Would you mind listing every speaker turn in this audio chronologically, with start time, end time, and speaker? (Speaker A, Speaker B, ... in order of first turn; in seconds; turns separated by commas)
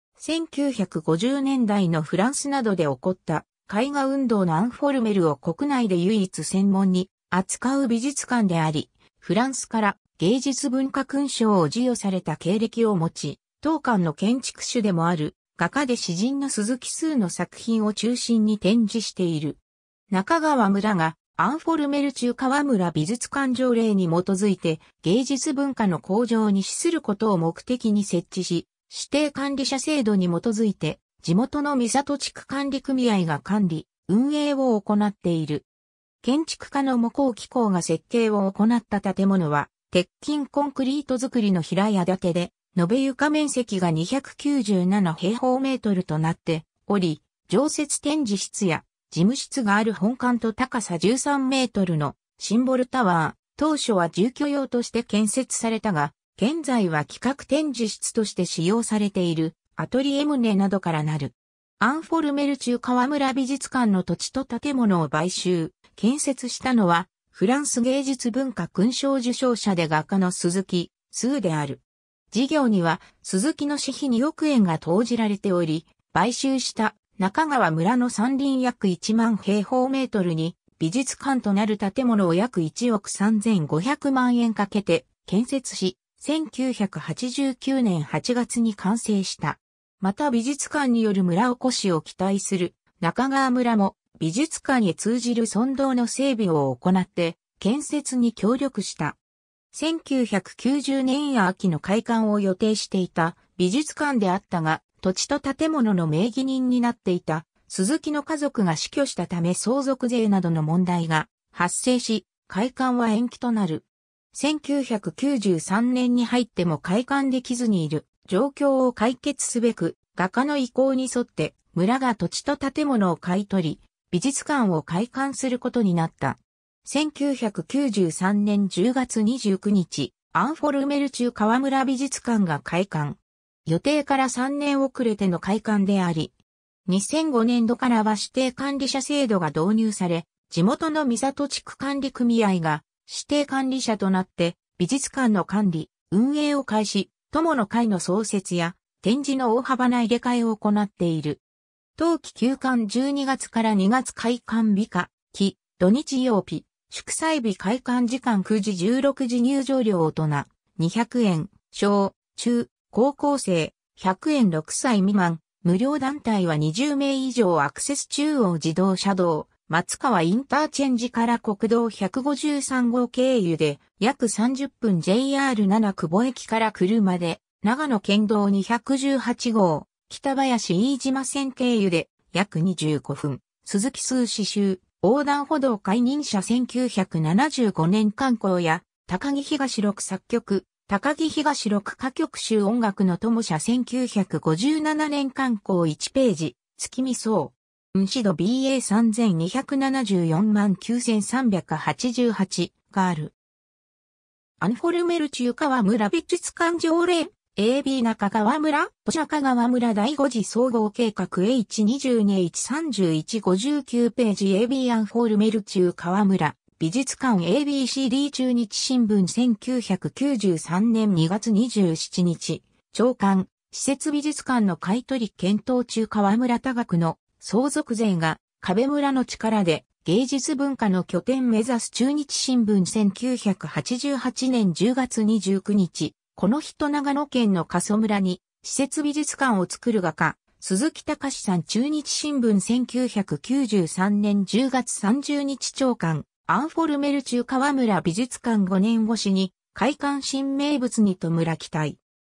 Speaker A: 0.2-35.7, Speaker A: 36.2-99.2, Speaker A: 99.7-136.3, Speaker A: 136.9-151.4, Speaker A: 152.0-203.3, Speaker A: 204.6-252.0